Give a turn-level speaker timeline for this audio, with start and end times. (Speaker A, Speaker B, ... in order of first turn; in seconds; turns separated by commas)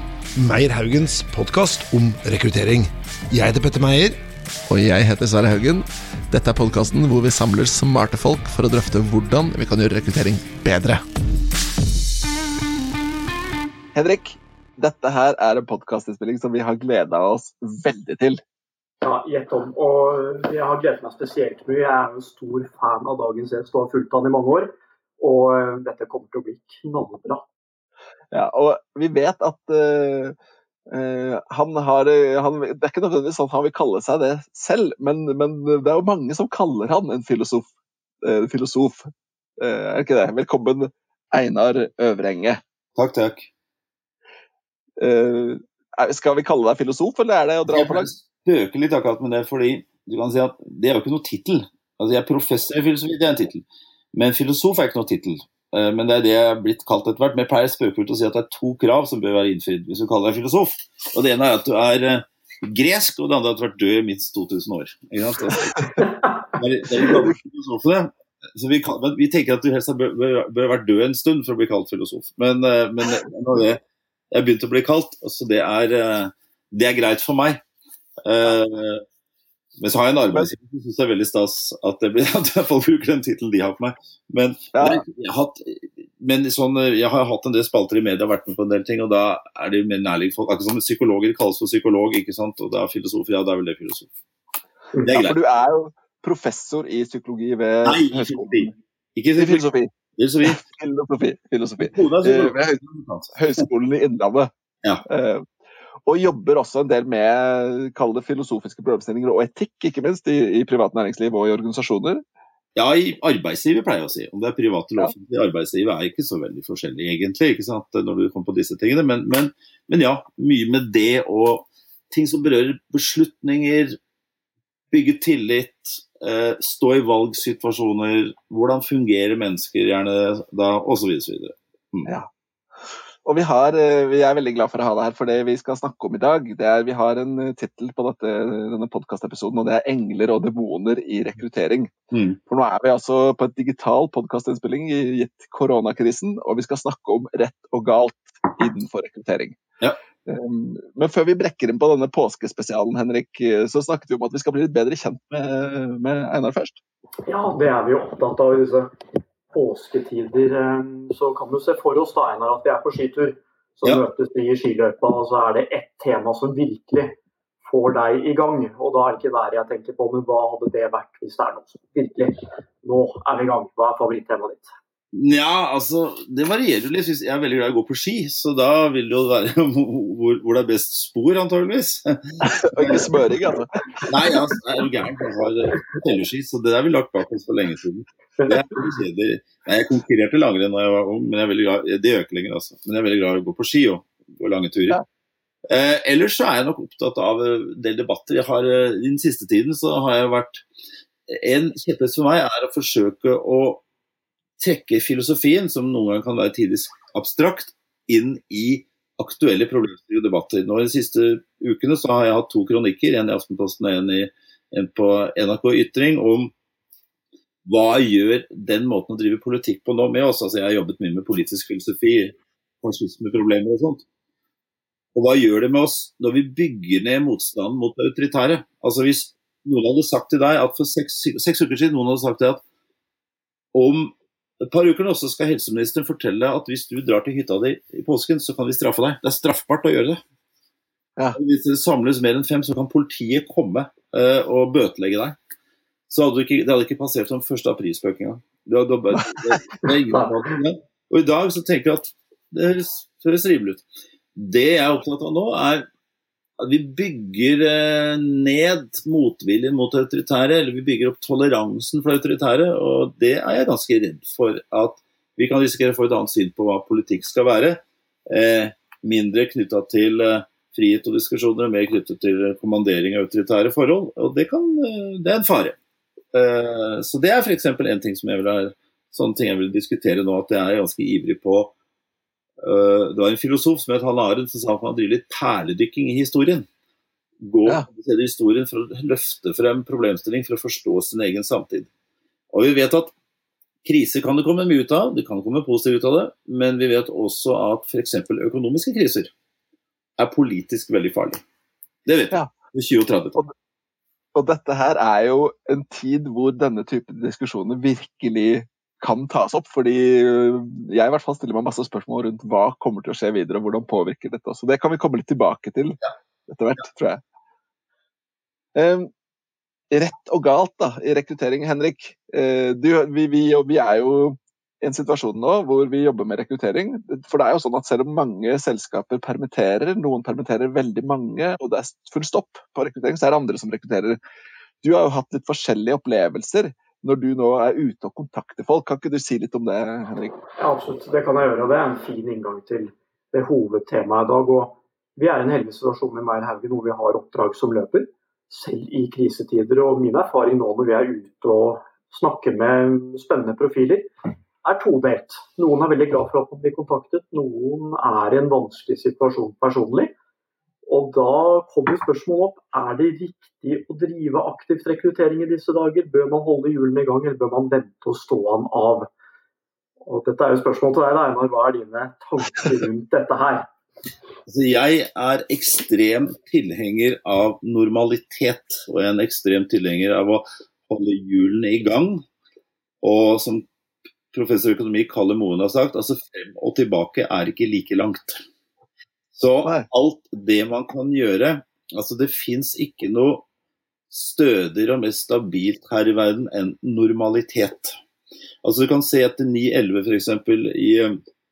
Speaker A: 0.3-4.2, Speaker B: 4.7-11.0, Speaker C: 13.9-18.4, Speaker D: 19.0-27.4, Speaker C: 28.3-30.4, Speaker C: 30.9-37.7, Speaker C: 38.2-39.0, Speaker C: 39.6-42.6, Speaker E: 43.0-43.5, Speaker C: 45.0-48.1, Speaker E: 47.7-73.8, Speaker E: 74.3-77.6, Speaker E: 78.2-79.0, Speaker E: 79.8-94.1, Speaker C: 84.7-85.0, Speaker E: 95.0-95.3, Speaker C: 95.0-98.7, Speaker E: 97.8-100.6, Speaker C: 99.4-99.9, Speaker C: 100.4-102.8, Speaker E: 101.8-103.4, Speaker C: 103.3-104.5, Speaker C: 105.1-105.4, Speaker C: 106.0-112.2, Speaker E: 112.8-124.0, Speaker E: 124.9-132.1, Speaker C: 133.2-141.9, Speaker E: 142.1-142.4, Speaker C: 142.5-149.6, Speaker C: 150.2-156.8, Speaker D: 157.3-158.9, Speaker D: 159.5-174.7, Speaker E: 175.1-183.3, Speaker C: 182.4-183.8, Speaker E: 184.0-195.0, Speaker E: 195.7-200.6, Speaker E: 201.3-203.8, Speaker E: 204.6-216.5, Speaker E: 217.7-224.0, Speaker E: 225.1-232.6, Speaker E: 233.7-240.2, Speaker E: 241.3-245.3, Speaker E: 246.1-253.8, Speaker E: 254.3-255.8, Speaker E: 256.6-275.8, Speaker E: 276.3-281.7, Speaker E: 282.6-286.7, Speaker E: 287.4-291.9, Speaker E: 292.5-293.1, Speaker E: 293.8-299.3, Speaker E: 300.2-301.4, Speaker E: 302.1-303.4, Speaker C: 304.3-317.2, Speaker C: 318.7-319.1, Speaker C: 319.9-334.2, Speaker C: 334.8-340.4, Speaker D: 340.6-354.1, Speaker D: 354.6-360.1, Speaker D: 360.9-369.1, Speaker D: 370.1-373.7, Speaker E: 374.5-382.2, Speaker E: 383.0-383.6, Speaker E: 384.3-388.4, Speaker E: 389.3-393.4, Speaker E: 394.1-397.9, Speaker E: 398.6-401.1